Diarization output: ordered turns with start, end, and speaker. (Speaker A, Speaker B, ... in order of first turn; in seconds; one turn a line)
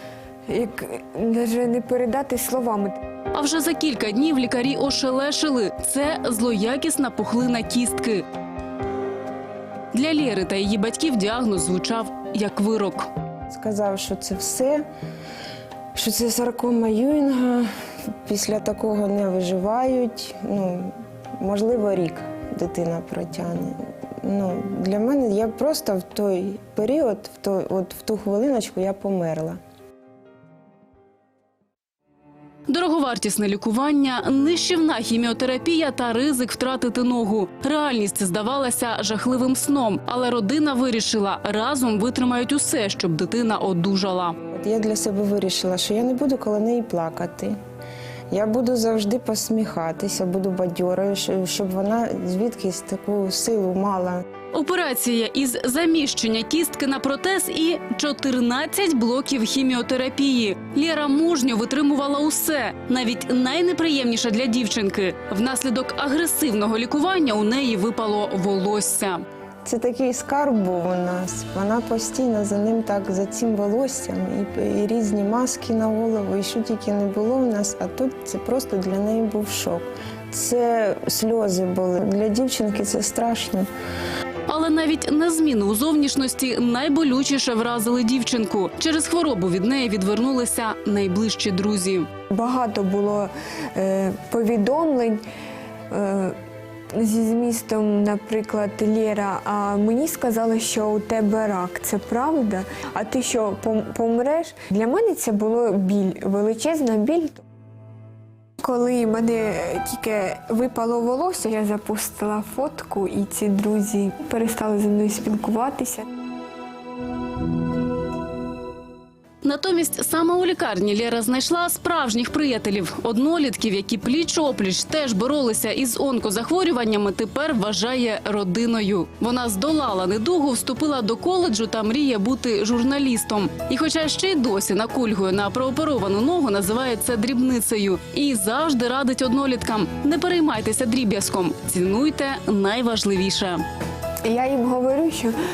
Speaker A: 0.5-3.0
Speaker B: 3.3-8.2
Speaker B: 9.9-13.1
Speaker C: 13.5-14.8
Speaker C: 15.9-17.7
Speaker C: 18.2-29.6
Speaker B: 32.7-44.4
Speaker C: 44.5-47.6
Speaker C: 48.3-54.2
Speaker B: 54.5-69.2
Speaker C: 69.6-83.7
Speaker B: 84.5-92.1
Speaker A: 92.3-95.2
Speaker A: 95.9-96.4
Speaker A: 97.0-107.4
Speaker A: 108.6-116.1
Speaker B: 119.4-143.6
Speaker A: 144.2-145.3